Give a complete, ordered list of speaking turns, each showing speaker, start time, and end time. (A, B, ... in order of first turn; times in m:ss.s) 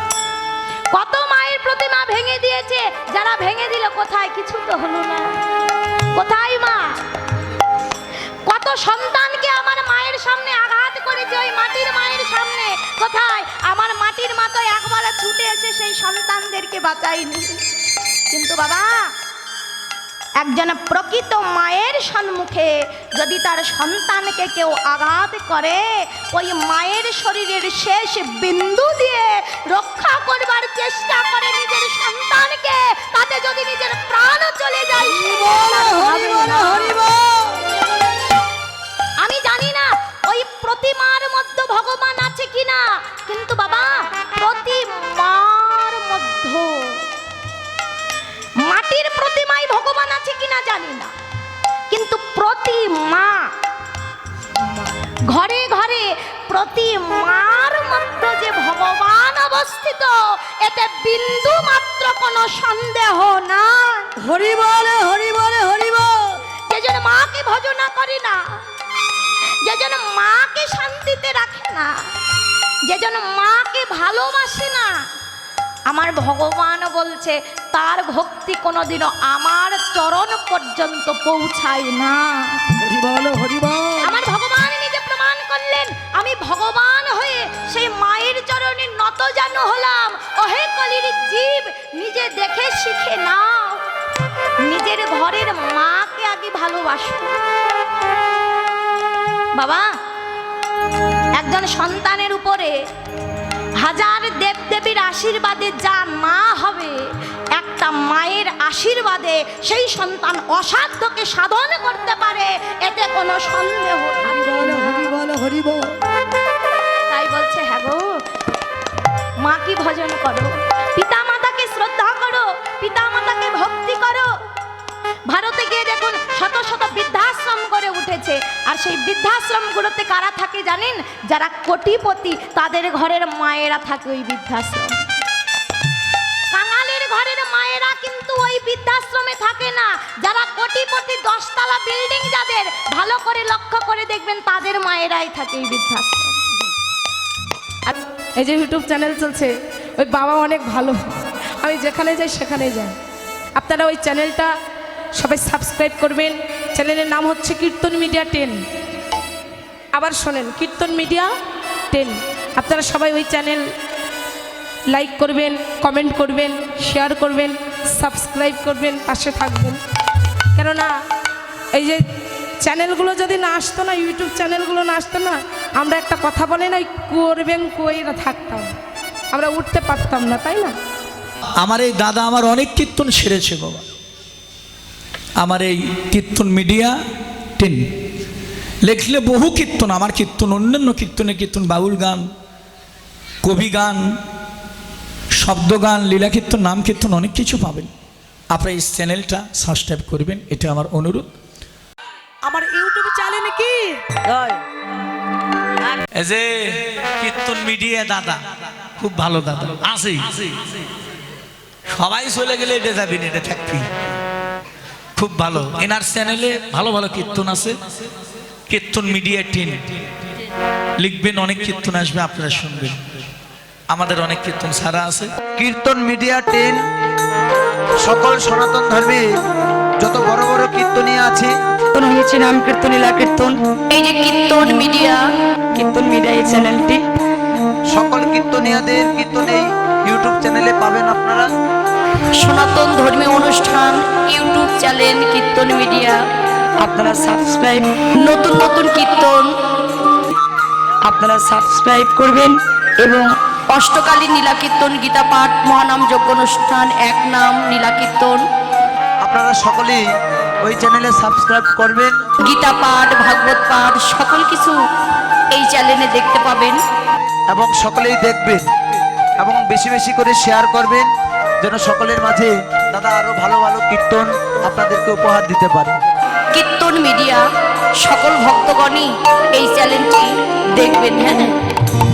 0:00.9-0:05.3 A
0:06.1-0:06.9 A
0:08.4-0:17.6 A
0:18.3-0:19.1 A
0:20.4-0:37.1 A
0:35.1-0:37.7 B
0:39.2-0:47.1 A
0:48.6-0:51.1 A
0:51.9-0:53.5 A
0:55.3-1:04.1 A
1:04.2-1:06.3 B
1:06.7-1:08.6 A
1:09.6-1:11.9 A
1:12.9-1:15.0 A
1:15.9-1:22.6 A
1:22.8-1:24.1 B
1:24.0-1:33.8 A
1:34.6-1:37.4 A
1:39.5-1:39.8 A
1:41.3-1:42.8 A
1:43.8-1:47.0 A
1:47.6-1:55.2 A
1:54.3-1:56.0 B
1:57.1-1:58.0 A
1:59.4-2:04.3 A
2:05.3-2:15.0 A
2:16.5-2:26.4 A
2:28.4-2:32.9 C
2:33.6-2:34.5 C
2:35.2-2:38.6 C
2:40.0-2:41.3 C
2:41.9-2:43.6 C
2:44.9-2:49.8 C
2:50.6-2:50.9 C
2:51.7-2:52.0 C
2:52.6-2:58.7 C
2:59.3-3:00.7 C
3:01.6-3:03.8 D
3:05.4-3:07.0 D
3:07.6-3:07.8 D
3:08.8-3:12.3 D
3:13.4-3:14.2 D
3:15.4-3:17.9 D
3:18.5-3:21.3 D
3:22.7-3:23.6 C
3:26.1-3:30.5 D
3:31.9-3:33.8 D
3:35.2-3:37.7 D
3:38.7-3:39.7 D
3:41.0-3:43.2 D
3:43.9-3:45.3 D
3:45.6-3:46.8 E
3:48.0-3:49.3 E
3:50.0-3:51.5 E
3:51.9-3:55.2 F
3:55.7-3:57.0 F
3:57.9-4:01.5 E
4:02.4-4:06.2 F
4:06.8-4:09.5 F
4:11.0-4:18.4 F
4:19.2-4:20.0 E
4:20.6-4:22.2 E
4:22.4-4:24.8 F
4:25.5-4:26.8 F
4:27.5-4:28.6 E
4:29.4-4:31.1 E
4:31.6-4:36.0 E
4:36.5-4:37.4 F
4:38.0-4:41.5 F